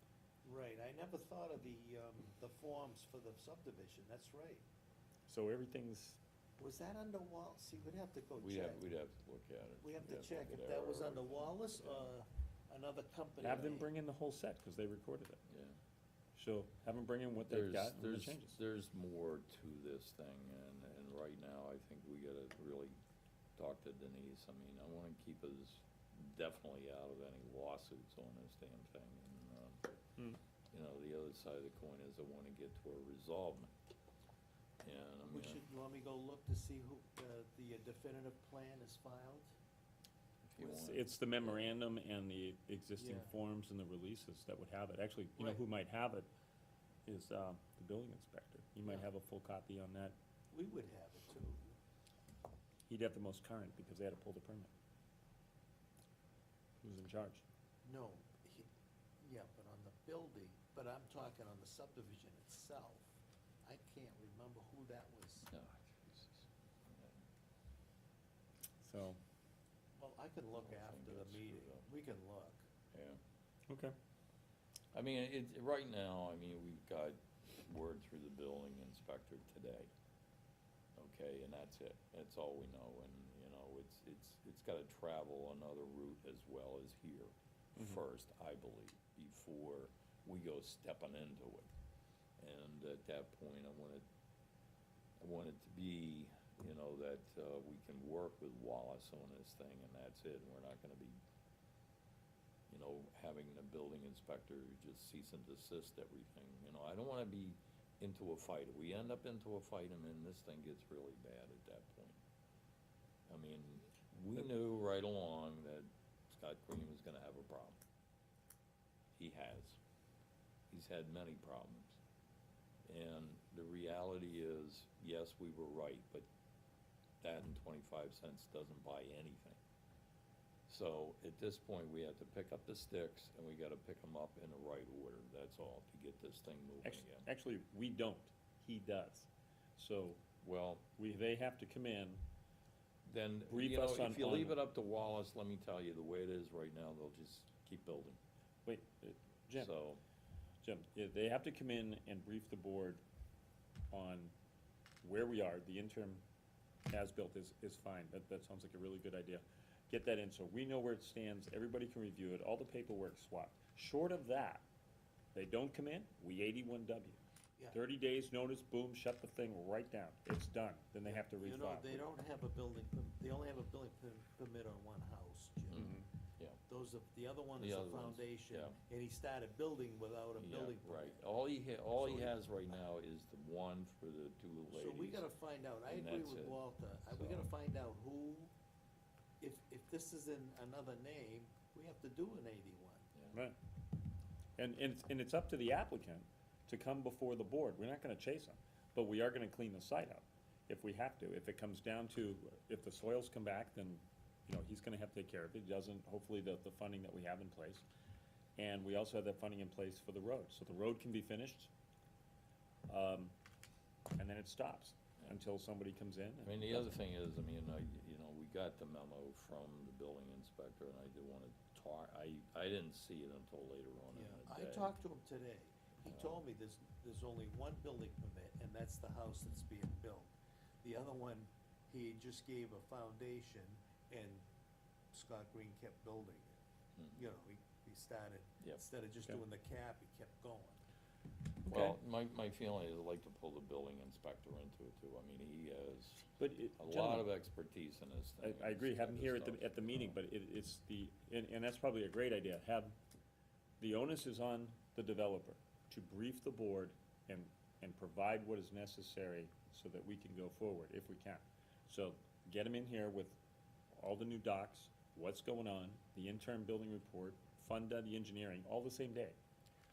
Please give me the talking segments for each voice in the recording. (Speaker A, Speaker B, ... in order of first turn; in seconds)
Speaker A: 0.5-4.6, 6.6-8.8, 9.8-13.9, 35.2-39.5, 43.0-43.4, 45.4-45.6, 50.5-51.8, 57.8-58.7, 59.2-65.5, 70.0-72.6, 171.0-175.9, 176.7-181.2, 182.0-182.3, 184.7-188.5, 189.4-193.1, 224.1-230.3, 230.8-234.4, 235.1-236.6, 237.2-240.8
Speaker B: 5.3-6.2, 13.4-15.4, 16.4-18.6, 40.6-46.3, 47.1-50.1, 52.9-54.7, 56.8-57.4, 68.8-69.2, 73.7-73.9, 136.8-140.2, 141.0-142.2, 143.5-144.6, 148.7-149.7, 150.6-153.0, 153.9-154.3, 155.0-156.2, 156.9-164.7, 165.3-167.2, 167.7-172.1, 175.7-176.1, 193.3-193.6, 194.6-207.8, 208.6-211.7, 212.9-213.3, 214.2-217.0, 241.6-242.0, 246.4-247.3, 248.4-252.9, 253.8-263.4, 263.9-269.4
Speaker C: 8.4-12.1, 15.5-15.8, 17.5-22.9, 23.6-29.9, 30.7-33.7, 34.8-35.6, 40.4-41.7, 65.5-67.2, 70.5-71.9, 72.9-73.2, 74.9-79.9, 81.0-91.7, 92.4-94.0, 95.2-101.2, 102.7-112.2, 113.3-117.8, 119.2-119.8, 120.7-122.0, 122.9-126.3, 127.2-129.6, 130.7-137.3, 140.4-140.9, 143.1-148.2, 149.5-150.0, 175.7-176.6, 177.6-178.8, 180.4-185.2, 185.9-187.5, 216.4-224.9, 237.0-237.2, 241.7-250.2